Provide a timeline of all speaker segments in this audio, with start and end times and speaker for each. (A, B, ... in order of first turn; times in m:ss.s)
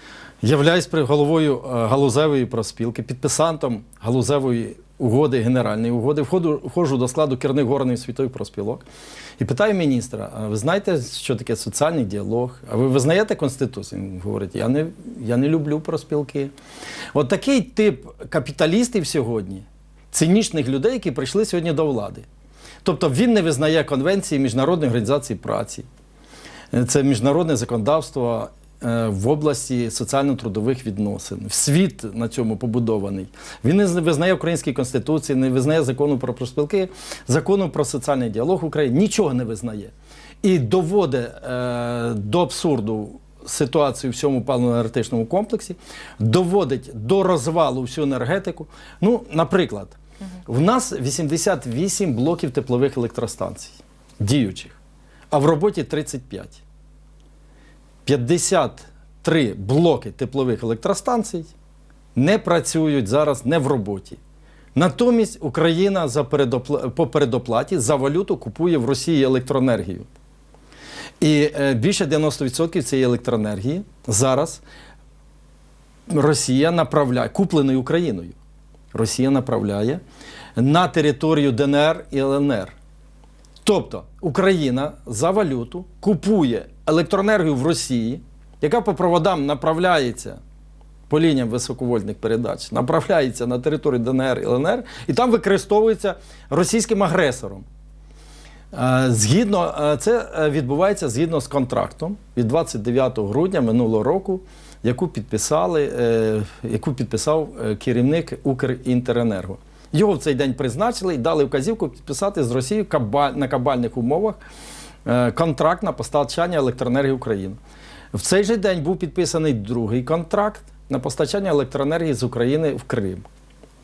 0:00.4-0:08.8 A
0:09.4-0:16.5 A
0:17.1-0:22.3 A
0:22.8-0:25.9 A
0:26.7-0:54.8 A
0:55.3-0:56.6 A
0:58.0-1:01.5 A
1:02.2-1:04.2 A
1:04.8-1:10.1 A
1:11.2-1:14.6 A
1:16.1-1:18.4 A
1:18.9-1:20.0 A
1:20.6-1:22.8 A
1:23.6-1:30.4 A
1:31.1-1:37.6 A
1:38.7-1:54.4 A
1:55.0-1:57.6 A
1:58.1-2:03.3 A